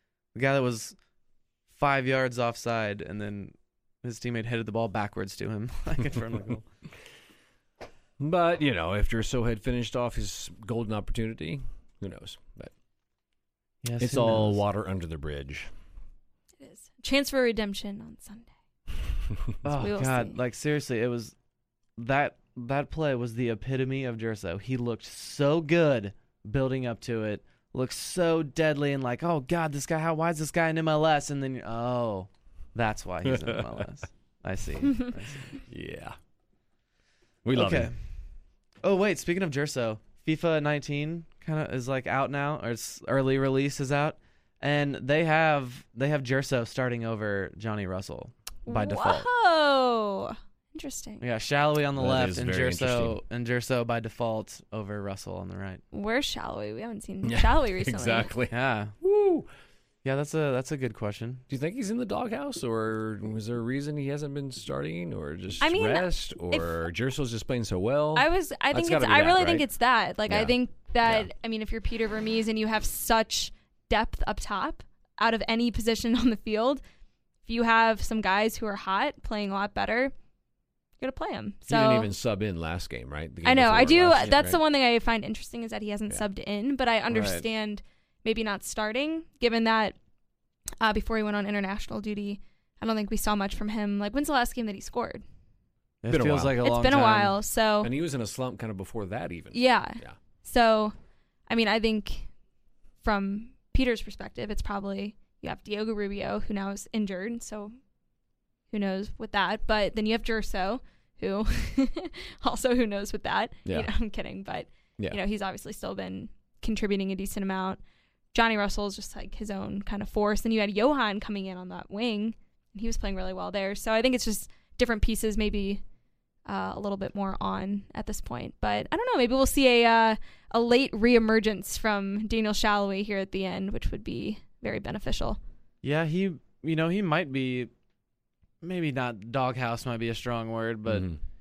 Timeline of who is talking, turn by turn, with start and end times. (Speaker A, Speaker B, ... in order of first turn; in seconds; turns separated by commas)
Speaker A: 0.3-0.9, Speaker A: 1.7-6.6, Speaker B: 8.2-12.7, Speaker A: 13.8-14.6, Speaker B: 14.0-15.7, Speaker C: 16.6-18.5, Speaker A: 19.6-21.3, Speaker C: 19.8-20.4, Speaker A: 22.0-35.6, Speaker B: 33.2-33.8, Speaker B: 35.7-36.1, Speaker B: 37.4-37.9, Speaker A: 37.5-38.0, Speaker A: 38.8-49.2, Speaker C: 48.6-51.2, Speaker A: 51.2-55.8, Speaker B: 52.0-53.2, Speaker C: 55.9-58.3, Speaker B: 57.2-59.5, Speaker A: 58.5-58.9, Speaker A: 60.0-61.4, Speaker B: 61.5-69.7, Speaker C: 65.6-66.7, Speaker C: 68.1-76.8, Speaker B: 70.3-71.3, Speaker C: 77.5-80.1, Speaker C: 81.0-82.1, Speaker B: 81.7-84.6, Speaker C: 83.4-90.0, Speaker A: 87.1-87.4, Speaker C: 90.8-95.2, Speaker A: 96.0-97.4, Speaker B: 96.1-96.6, Speaker C: 96.6-97.9, Speaker B: 97.8-100.2, Speaker C: 99.5-100.9, Speaker C: 101.5-102.3, Speaker C: 103.0-107.7, Speaker C: 108.7-117.8, Speaker C: 118.3-125.8, Speaker C: 126.5-135.4, Speaker A: 135.8-137.7, Speaker A: 138.6-141.1, Speaker B: 140.9-141.2